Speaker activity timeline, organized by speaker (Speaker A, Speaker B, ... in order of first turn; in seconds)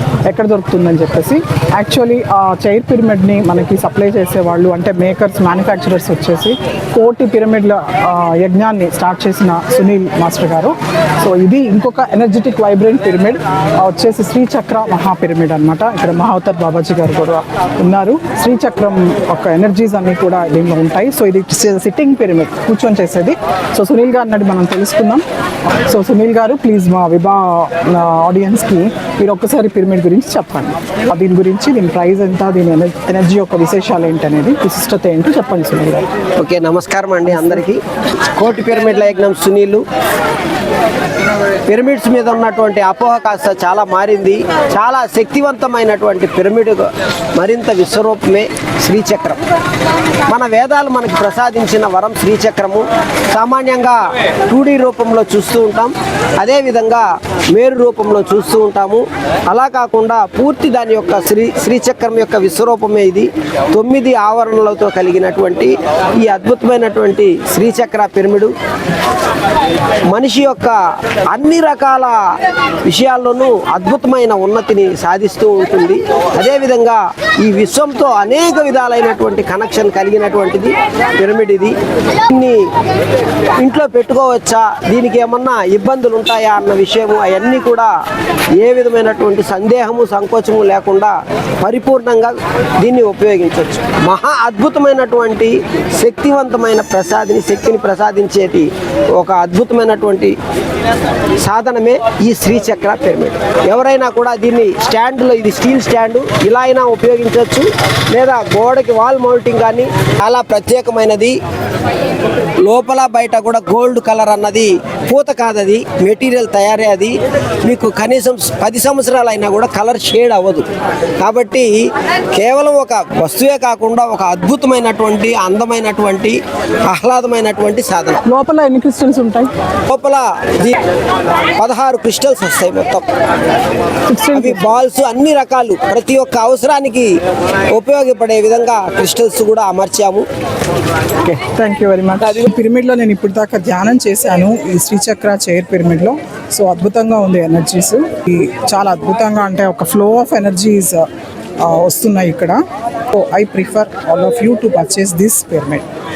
Speaker A: 0.3-25.2, 25.9-36.0, 37.3-37.6, 128.2-129.5, 134.1-134.7, 141.2-151.0, 151.6-152.6, 153.1-155.8
Speaker B: 36.4-37.8, 38.4-39.8, 41.7-49.4, 50.3-68.5, 70.1-70.8, 71.3-72.2, 72.8-81.7, 82.3-82.6, 83.6-87.9, 88.6-100.3, 101.4-111.3, 112.6-117.1, 117.6-120.6, 121.2-121.8, 122.3-128.2, 129.9-130.7, 131.6-133.0, 134.3-137.1, 137.7-140.2